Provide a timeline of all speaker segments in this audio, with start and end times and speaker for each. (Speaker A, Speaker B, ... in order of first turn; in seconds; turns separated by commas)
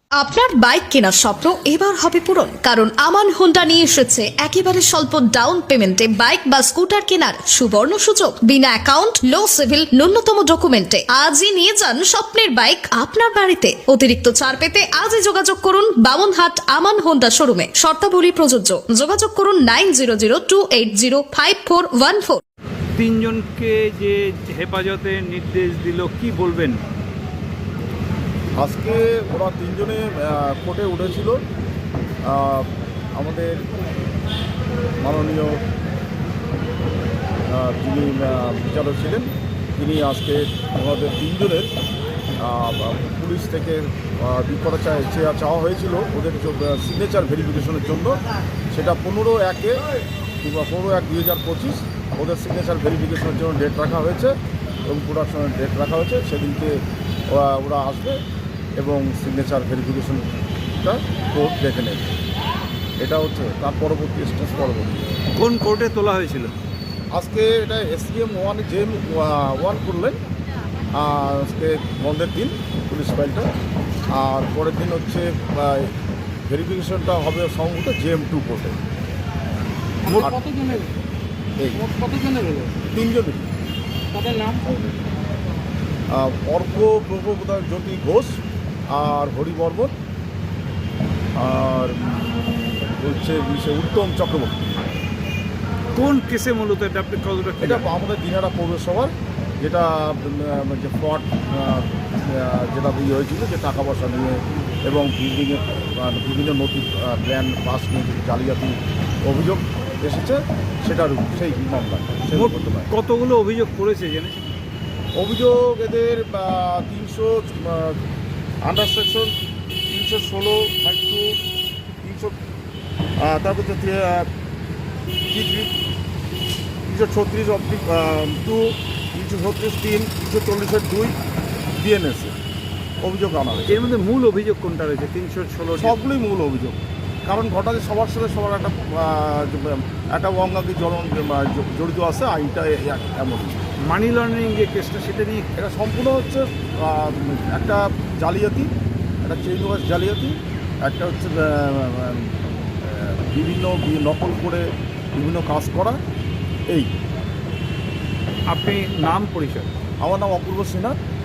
Speaker A: 0.2-22.4, Speaker B: 22.9-26.8, Speaker C: 28.6-31.4, Speaker C: 32.2-33.6, Speaker C: 35.0-35.6, Speaker C: 37.5-41.7, Speaker C: 42.4-48.2, Speaker C: 48.7-49.8, Speaker C: 50.4-54.3, Speaker C: 54.9-56.8, Speaker C: 57.3-58.2, Speaker C: 58.8-60.2, Speaker C: 60.8-62.1, Speaker C: 63.0-65.2, Speaker B: 65.4-66.5, Speaker C: 67.1-70.2, Speaker C: 70.9-73.5, Speaker C: 74.1-75.9, Speaker C: 76.5-78.8, Speaker B: 80.0-80.8, Speaker C: 80.0-80.8, Speaker C: 81.6-81.8, Speaker B: 81.8-82.7, Speaker C: 82.9-83.5, Speaker B: 84.1-84.6, Speaker C: 84.6-85.0, Speaker C: 86.1-88.4, Speaker C: 88.9-89.9, Speaker C: 91.4-94.8, Speaker B: 95.9-97.9, Speaker C: 97.6-112.9, Speaker B: 112.3-114.4, Speaker C: 115.2-118.0, Speaker C: 118.6-119.3, Speaker C: 119.9-121.4, Speaker C: 122.0-122.3, Speaker C: 123.2-124.3, Speaker C: 125.3-125.7, Speaker C: 126.9-131.1, Speaker C: 131.7-132.3, Speaker C: 133.0-133.9, Speaker B: 133.7-135.9, Speaker C: 135.7-143.6, Speaker B: 143.9-145.5, Speaker C: 145.5-148.7, Speaker C: 149.2-156.0, Speaker B: 158.5-159.7, Speaker C: 160.0-160.9